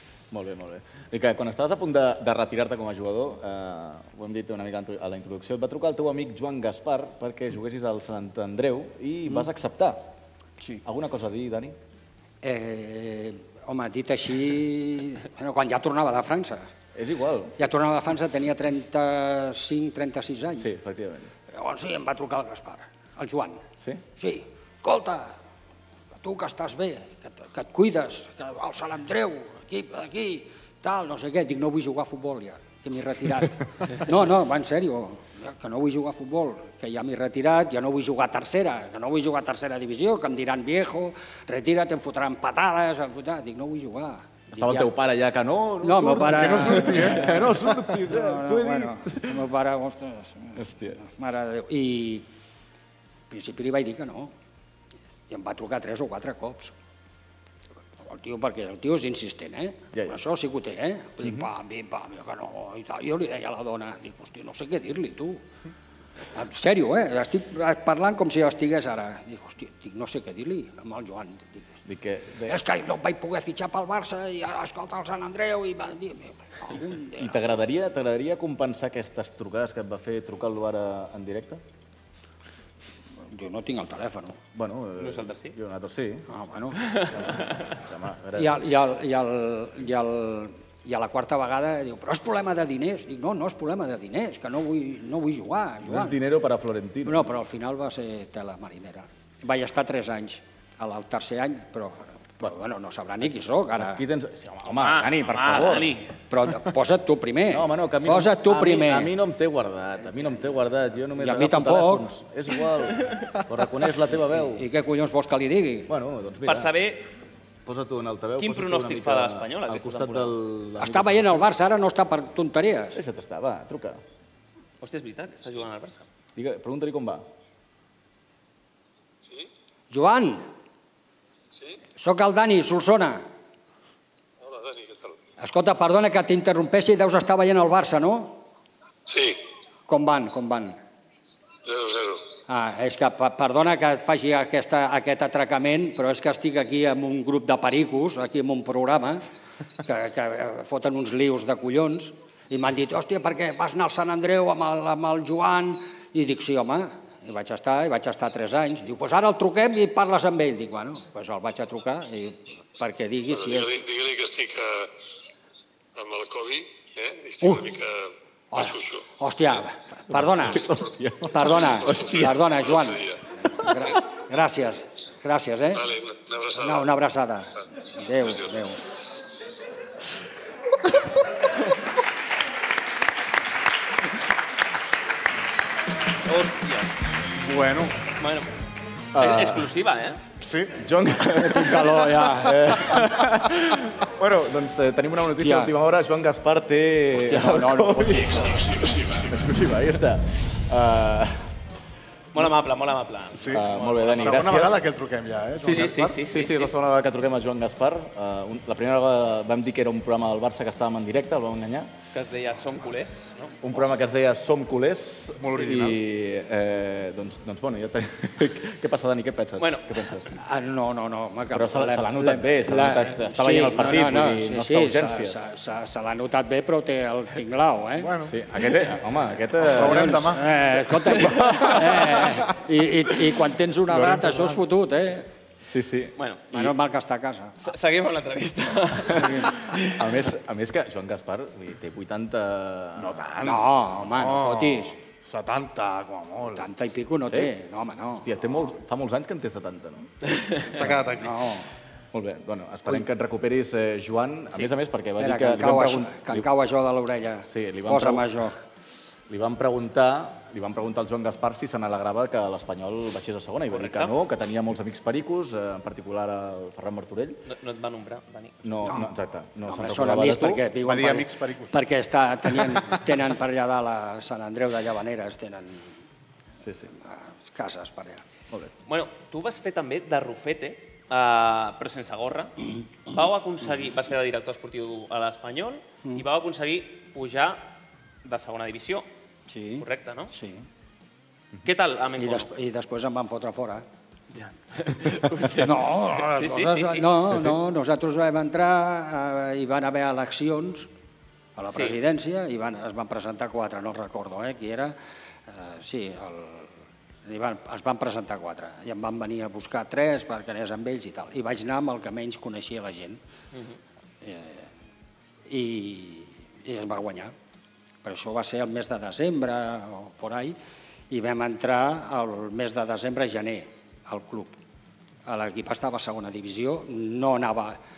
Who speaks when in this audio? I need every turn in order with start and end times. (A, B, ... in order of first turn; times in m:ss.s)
0:00.3-0:10.1 A
0:10.8-0:11.8 A
0:12.4-0:16.7 B
0:16.9-0:17.6 A
0:17.6-0:20.7 B
0:20.6-0:21.3 A
0:21.5-0:23.6 B
0:24.2-0:25.4 B
0:26.2-0:44.9 B
0:44.5-0:49.4 A
0:45.8-0:52.2 B
0:46.5-0:47.2 C
0:50.6-0:51.0 A
0:53.3-0:54.3 B
0:55.3-0:56.7 B
0:58.0-1:05.4 B
1:06.3-1:11.6 B
1:11.8-1:12.6 A
1:12.4-1:17.4 B
1:17.2-1:21.6 A
1:23.3-1:24.4 B
1:24.5-1:26.3 A
1:25.0-1:25.5 D
1:26.3-1:27.0 B
1:26.8-1:27.6 D
1:27.1-1:28.6 A
1:28.3-1:36.2 B
1:35.8-1:37.3 A
1:37.0-1:44.0 B
1:43.8-1:46.0 A
1:44.7-1:46.1 D
1:46.3-1:49.1 B
1:47.5-1:54.6 A
1:51.2-1:52.1 B
1:54.4-1:55.9 B
1:55.9-1:56.7 A
1:56.4-1:57.1 D
1:57.6-2:01.4 A
1:58.4-2:00.4 D
2:00.8-2:03.0 B
2:02.9-2:04.0 A
2:04.8-2:06.0 D
2:06.4-2:07.2 A
2:09.9-2:10.5 B
2:12.0-2:13.2 B
2:14.4-2:15.2 E
2:15.4-2:18.4 B
2:19.1-2:19.4 E
2:19.9-2:20.8 B
2:21.6-2:22.3 E
2:22.5-2:29.2 B
2:29.8-2:43.8 B
2:43.3-2:44.9 E
2:45.9-2:49.1 E
2:47.4-2:47.7 B
2:48.5-2:55.9 B
2:50.1-2:52.4 A
2:52.6-2:53.2 E
2:55.8-2:56.9 E
2:56.5-2:58.8 B
3:06.3-3:06.9 D
3:07.4-3:08.0 C
3:08.2-3:08.5 D
3:09.1-3:09.7 A
3:09.1-3:10.2 D
3:10.4-3:10.8 C
3:10.7-3:21.5 A
3:11.4-3:12.7 B
3:15.3-3:15.7 B
3:17.2-3:18.6 B
3:22.3-3:24.6 D
3:23.3-3:26.1 C
3:23.5-3:24.8 A
3:25.6-3:31.9 A
3:25.6-3:26.7 D
3:32.1-3:33.5 D
3:33.6-3:40.3 A
3:35.4-3:36.0 C
3:39.6-3:39.9 D
3:40.3-3:48.1 B
3:41.5-3:45.4 A
3:48.0-3:48.4 C
3:48.2-3:50.3 A
3:49.7-3:50.5 C
3:49.8-3:55.3 B
3:53.9-3:54.6 C
3:55.7-3:56.1 A
3:56.2-3:56.7 D
3:56.5-3:57.6 B
3:57.6-4:00.1 D
3:59.1-3:59.5 B
3:59.9-4:03.3 A
4:03.0-4:06.6 C
4:03.4-4:05.0 B
4:06.5-4:08.7 B
4:07.3-4:07.5 A
4:08.1-4:10.1 A
4:10.7-4:11.4 C
4:11.2-4:11.7 B
4:12.1-4:16.4 A
4:15.2-4:18.6 B
4:17.5-4:18.4 A
4:19.3-4:27.4 A
4:23.7-4:24.2 D
4:27.4-4:28.7 D
4:28.6-4:30.6 A
4:29.6-4:35.9 B
4:30.8-4:31.8 C
4:36.6-4:36.9 A
4:37.0-4:38.2 B
4:38.9-4:47.7 D
4:48.2-4:49.0 D
4:49.5-4:50.6 B
4:49.8-4:50.3 D
4:51.6-4:52.5 D
4:52.2-4:53.8 B
4:54.3-4:57.1 D
4:55.6-5:00.9 B
5:01.6-5:05.0 B
5:05.5-5:06.7 B
5:07.2-5:13.2 B
5:14.2-5:14.7 B
5:15.5-5:17.3 B
5:18.0-5:20.6 B
5:21.1-5:24.6 B
5:25.2-5:27.8 B